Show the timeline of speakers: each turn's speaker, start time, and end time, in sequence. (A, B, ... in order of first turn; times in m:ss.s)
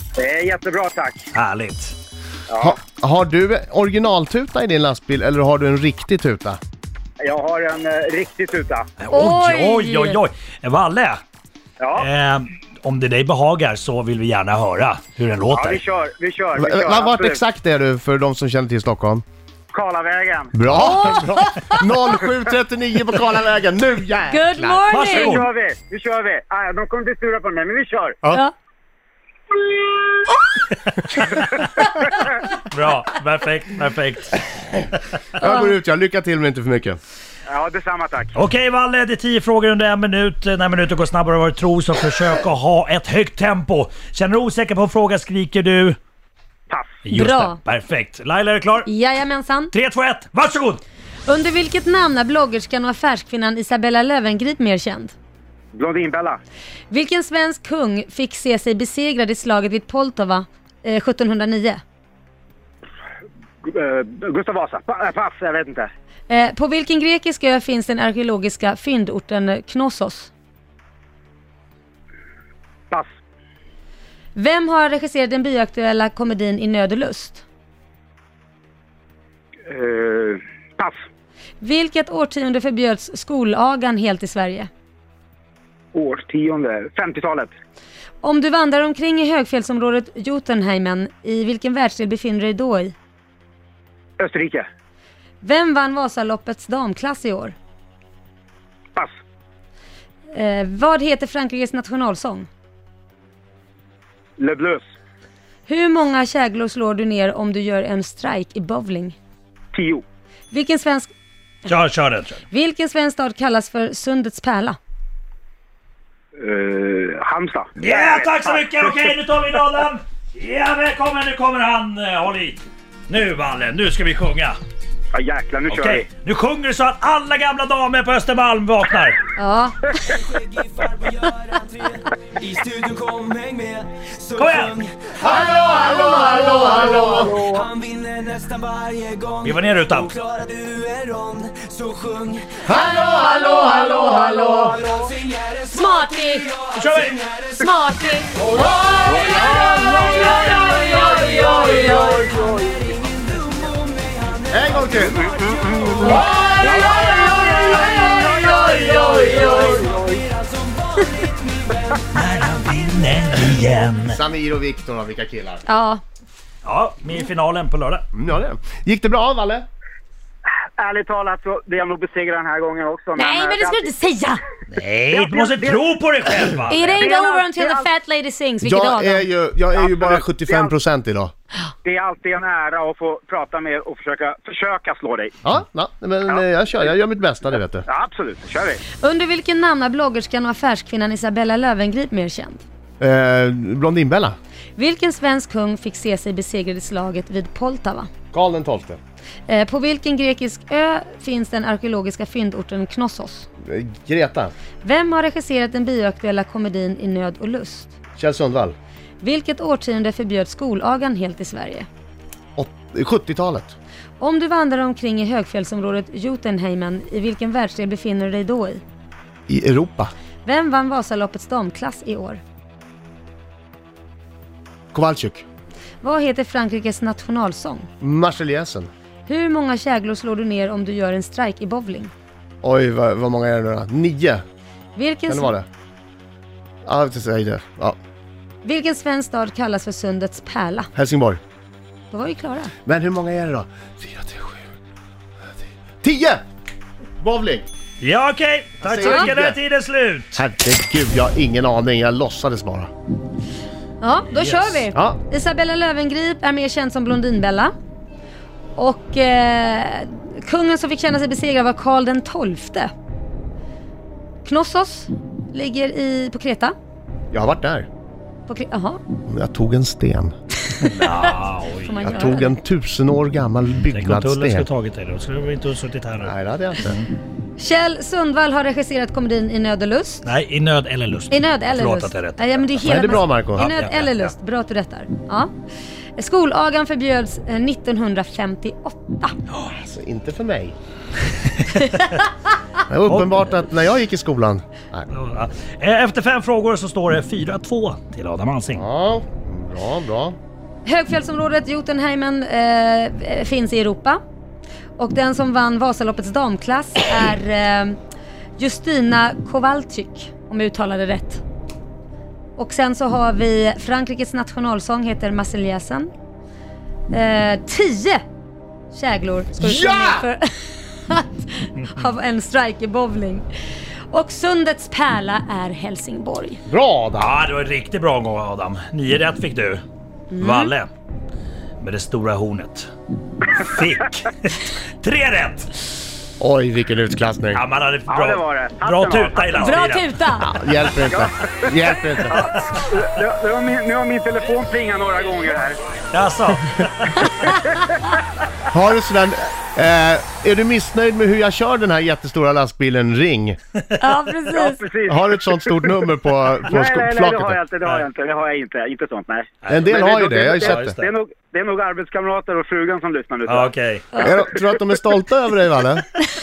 0:00.2-0:01.2 A
0:01.3-0:02.0 B
0:02.5-0:02.8 A
0:02.6-0:06.6 C
0:07.2-0:08.9 A
0:09.0-0:11.2 B
0:09.1-0:10.2 D
0:11.8-0:12.1 A
0:12.0-0:15.8 B
0:15.5-0:17.4 A
0:16.6-0:19.2 C
0:19.7-0:20.5 A
0:20.5-0:24.8 C
0:20.7-0:22.0 D
0:24.3-0:25.4 D
0:24.9-0:25.5 B
0:25.1-0:28.2 A
0:29.6-0:30.0 A
0:31.4-0:31.9 B
0:32.5-0:35.0 B
0:35.4-0:37.0 C
0:35.4-0:35.7 D
0:37.5-0:38.3 A
0:38.3-0:46.0 B
0:46.7-0:47.0 A
0:47.0-0:48.9 B
0:47.1-0:47.6 D
0:48.8-0:49.7 D
0:49.7-0:50.8 B
0:51.3-0:55.2 D
0:55.7-0:56.4 A
0:56.9-1:01.8 D
1:03.6-1:05.9 A
1:06.3-1:10.3 D
1:14.4-1:17.4 D
1:19.7-1:21.0 A
1:21.6-1:24.7 D
1:25.9-1:27.5 A
1:28.2-1:33.0 D
1:34.2-1:34.7 A
1:35.4-1:37.6 D
1:40.3-1:42.5 D
1:44.4-1:44.8 A
1:45.7-1:49.2 D
1:49.7-1:50.0 A
1:50.5-1:51.1 D
1:51.7-1:52.4 B
1:52.5-1:54.8 D
1:56.4-1:59.1 A
1:57.8-2:04.6 B
2:05.1-2:06.1 A
2:05.7-2:09.2 B
2:09.4-2:10.2 D
2:10.4-2:15.2 E
2:14.4-2:14.8 B
2:15.2-2:17.5 C
2:15.5-2:16.1 D
2:16.2-2:22.6 E
2:19.4-2:20.2 B
2:22.7-2:24.8 C
2:22.9-2:24.5 D
2:24.6-2:27.4 E
2:25.7-2:26.5 D
2:26.8-2:27.3 B
2:27.6-2:28.4 D
2:28.6-2:29.3 E
2:29.3-2:32.2 D
2:30.3-2:34.8 E
2:34.5-2:35.2 C
2:35.0-2:37.0 A
2:35.5-2:36.4 E
2:36.0-2:39.7 D
2:36.1-2:37.0 C
2:38.6-2:42.0 E
2:42.1-2:44.2 B
2:44.1-2:45.6 C
2:45.7-2:46.0 D
2:46.6-2:48.1 B
2:48.1-2:49.7 C
2:50.5-2:53.9 A
2:53.2-2:54.4 D
2:54.7-2:57.0 B
2:55.1-2:55.9 A
2:56.7-2:59.3 D
2:56.9-2:57.9 A
2:58.6-3:01.3 C
2:59.8-3:00.7 A
3:01.8-3:05.4 A
3:05.4-3:07.9 C
3:06.3-3:06.9 A
3:07.9-3:08.8 A
3:09.0-3:12.6 D
3:13.0-3:14.4 C
3:14.8-3:18.1 D
3:18.3-3:19.0 C
3:19.5-3:23.5 D
3:23.6-3:24.5 C
3:24.8-3:27.9 D
3:28.2-3:28.8 C
3:29.2-3:31.9 D
3:32.6-3:33.8 C
3:34.2-3:38.8 D
3:39.5-3:40.1 C
3:40.4-3:42.4 D
3:44.9-3:45.4 C
3:46.0-3:47.9 D
3:48.0-3:48.9 C
3:49.3-3:52.1 D
3:52.6-3:54.4 C
3:55.0-3:55.5 D
3:55.3-3:55.7 C
3:56.8-3:58.0 C
3:58.6-4:00.9 D
4:01.0-4:01.4 C
4:02.1-4:02.7 D
4:02.9-4:04.7 C
4:05.9-4:06.4 C
4:07.2-4:07.7 C
4:08.0-4:10.4 B
4:08.8-4:09.6 C
4:09.0-4:09.3 D
4:10.3-4:12.9 C
4:14.0-4:17.7 D
4:14.3-4:14.8 B
4:14.9-4:15.2 C
4:18.8-4:22.9 D
4:24.4-4:26.8 D
4:27.3-4:27.9 C
4:28.5-4:29.0 D
4:29.2-4:30.3 C
4:30.8-4:32.0 B
4:31.8-4:32.6 D
4:32.0-4:34.7 C
4:33.7-4:37.1 B
4:36.2-4:37.0 C
4:37.6-4:40.3 D
4:40.2-4:44.3 B
4:41.3-4:45.5 D
4:42.8-4:43.7 C
4:46.2-4:49.3 D
4:49.7-4:50.8 C
4:51.7-4:52.2 B
4:52.9-4:55.1 C
4:53.1-4:53.6 B
4:55.1-4:58.8 B
4:58.7-5:00.4 C
5:00.8-5:04.2 D
5:05.0-5:08.0 D
5:08.6-5:11.4 D
5:12.6-5:16.1 D
5:17.1-5:18.2 D
5:18.9-5:23.5 D
5:19.6-5:20.3 C
5:24.1-5:26.6 D
5:26.7-5:27.3 C
5:27.2-5:29.8 B
5:30.3-5:30.7 D
5:30.4-5:30.9 B
5:31.8-5:35.8 B
5:36.4-5:37.6 C
5:37.5-5:40.1 B
5:38.1-5:39.8 A
5:39.6-5:40.5 D
5:40.4-5:42.4 C
5:41.1-5:41.7 A
5:42.3-5:45.8 A
5:42.3-5:42.8 B
5:46.1-5:47.2 B
5:48.7-5:53.6 C
5:54.0-5:54.8 D
5:54.5-5:55.8 A
5:55.1-5:57.6 C
5:56.7-6:03.7 A
5:59.6-6:00.0 B
5:59.7-6:00.9 C
6:00.5-6:01.1 B
6:03.5-6:04.1 B
6:04.2-6:06.1 C